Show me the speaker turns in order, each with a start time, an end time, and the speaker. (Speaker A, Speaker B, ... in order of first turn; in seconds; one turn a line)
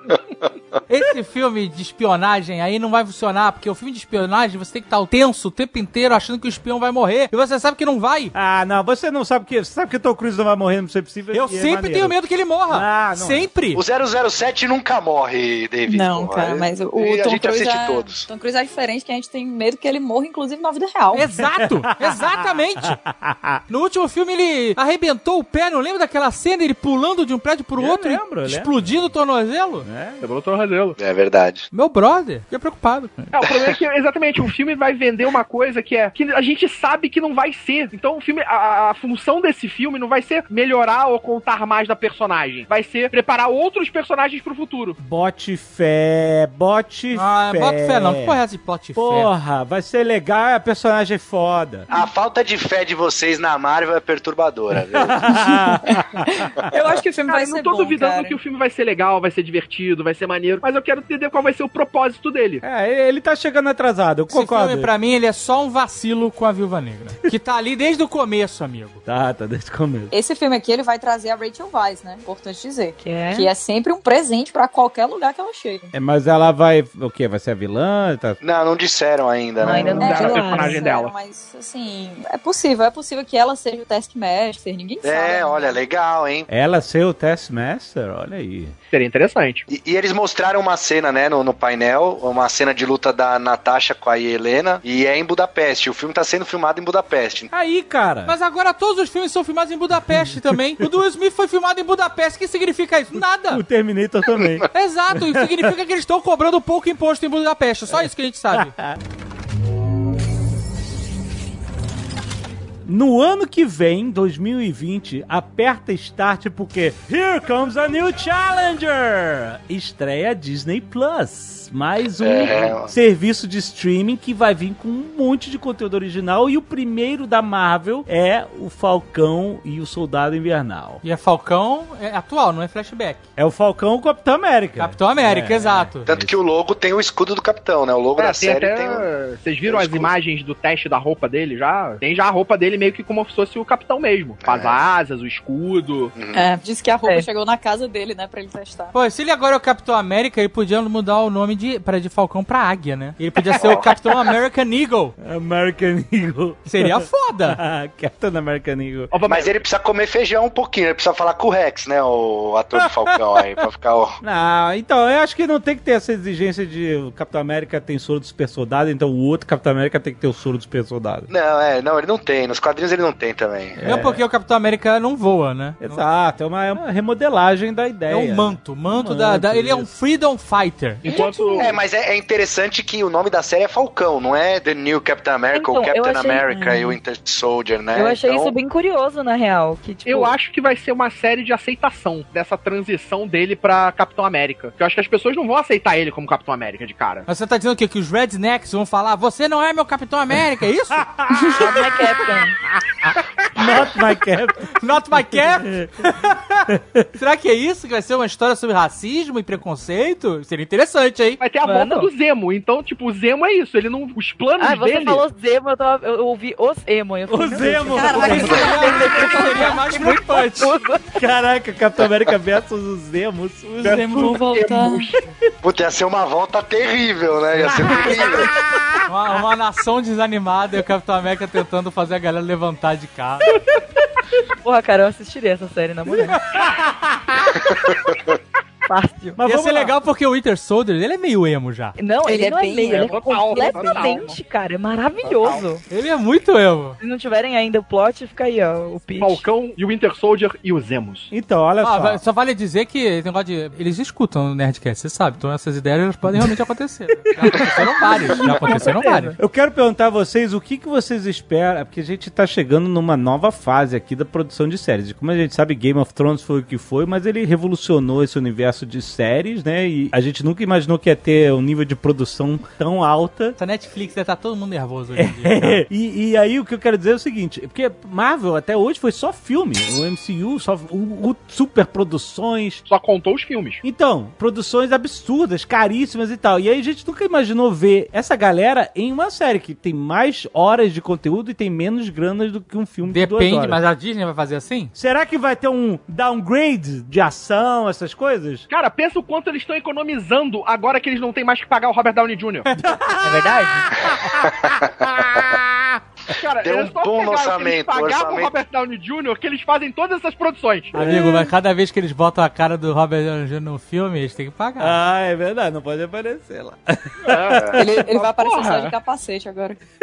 Speaker A: 0.9-8.3
Speaker B: 8.3-12.2
Speaker A: 11.3-13.8
Speaker B: 12.7-13.5
Speaker C: 13.7-18.3
Speaker D: 15.9-21.3
Speaker A: 21.1-23.0
Speaker B: 21.6-23.6
Speaker A: 23.7-29.9
Speaker B: 27.8-28.8
Speaker B: 29.8-30.2
Speaker E: 30.2-31.0
Speaker C: 31.0-31.7
Speaker A: 31.7-33.3
Speaker E: 33.3-45.0
Speaker C: 33.4-33.7
Speaker B: 45.0-48.4
Speaker A: 47.1-49.3
Speaker B: 49.0-51.9
Speaker C: 51.9-55.2
Speaker B: 54.9-56.7
Speaker D: 55.4-58.4
Speaker E: 57.2-62.6
Speaker B: 62.6-64.9
Speaker A: 64.3-69.0
Speaker B: 69.0-70.1
Speaker D: 70.1-75.9
Speaker F: 73.0-73.5
Speaker B: 75.9-78.4
Speaker C: 78.4-80.0
Speaker F: 79.6-80.9
Speaker E: 79.6-81.1
Speaker D: 80.0-85.8
Speaker C: 85.0-86.5
Speaker B: 86.5-88.7
Speaker E: 88.9-89.6
Speaker C: 89.7-97.5
Speaker B: 97.5-98.3
Speaker A: 98.2-103.6
Speaker B: 100.1-100.9
Speaker B: 103.1-105.7
Speaker A: 104.7-108.7
Speaker B: 107.9-109.0
Speaker B: 112.8-131.0
Speaker C: 122.2-122.9
Speaker A: 131.0-133.2
Speaker B: 133.4-136.3
Speaker A: 134.8-136.1
Speaker C: 136.1-139.0
Speaker E: 138.2-146.1
Speaker C: 139.7-140.1
Speaker C: 144.4-144.8
Speaker C: 146.1-146.5
Speaker D: 146.3-148.9
Speaker A: 148.9-155.1
Speaker C: 153.6-153.9
Speaker B: 155.2-159.1
Speaker A: 156.7-157.6
Speaker E: 159.1-159.6
Speaker C: 159.3-164.2
Speaker B: 162.8-163.4
Speaker B: 164.2-171.3
Speaker C: 171.3-173.8
Speaker B: 173.8-174.2
Speaker A: 173.8-176.0
Speaker B: 175.8-179.9
Speaker A: 178.1-181.1
Speaker E: 181.0-181.7
Speaker D: 181.1-181.7
Speaker C: 181.6-188.5
Speaker F: 185.5-187.0
Speaker F: 187.9-190.3
Speaker E: 190.0-197.2
Speaker A: 197.2-201.1
Speaker B: 200.9-201.9
Speaker F: 201.5-202.6
Speaker B: 202.9-206.1
Speaker A: 204.8-211.4
Speaker B: 206.7-207.1
Speaker E: 211.4-215.2
Speaker F: 211.6-212.1
Speaker F: 214.6-221.2
Speaker B: 217.3-219.0
Speaker D: 217.8-219.7
Speaker A: 218.2-220.7
Speaker B: 221.2-224.3
Speaker E: 223.8-225.2
Speaker D: 223.9-225.1
Speaker C: 225.6-228.5
Speaker B: 227.7-229.0
Speaker A: 229.1-233.6
Speaker F: 234.6-236.6
Speaker B: 236.6-237.6
Speaker F: 238.9-239.4
Speaker B: 239.3-240.0
Speaker A: 239.4-241.9
Speaker F: 242.0-245.8
Speaker D: 242.2-244.3
Speaker E: 242.9-244.4
Speaker E: 245.2-245.7
Speaker A: 245.9-247.0
Speaker F: 247.0-249.4
Speaker E: 249.2-251.3
Speaker B: 251.3-252.2
Speaker A: 251.8-259.4
Speaker B: 257.4-257.8
Speaker F: 258.3-259.4
Speaker B: 259.4-273.6
Speaker A: 273.6-275.9
Speaker B: 275.1-282.8
Speaker E: 282.9-283.8
Speaker B: 283.8-293.8
Speaker A: 293.1-294.9
Speaker B: 294.9-298.7
Speaker E: 298.7-302.7
Speaker B: 302.8-306.0
Speaker F: 303.2-303.9
Speaker E: 306.3-311.0
Speaker C: 306.6-308.6
Speaker A: 310.9-315.0
Speaker B: 310.9-311.5
Speaker B: 314.8-317.8
Speaker E: 317.2-318.9
Speaker D: 317.7-319.8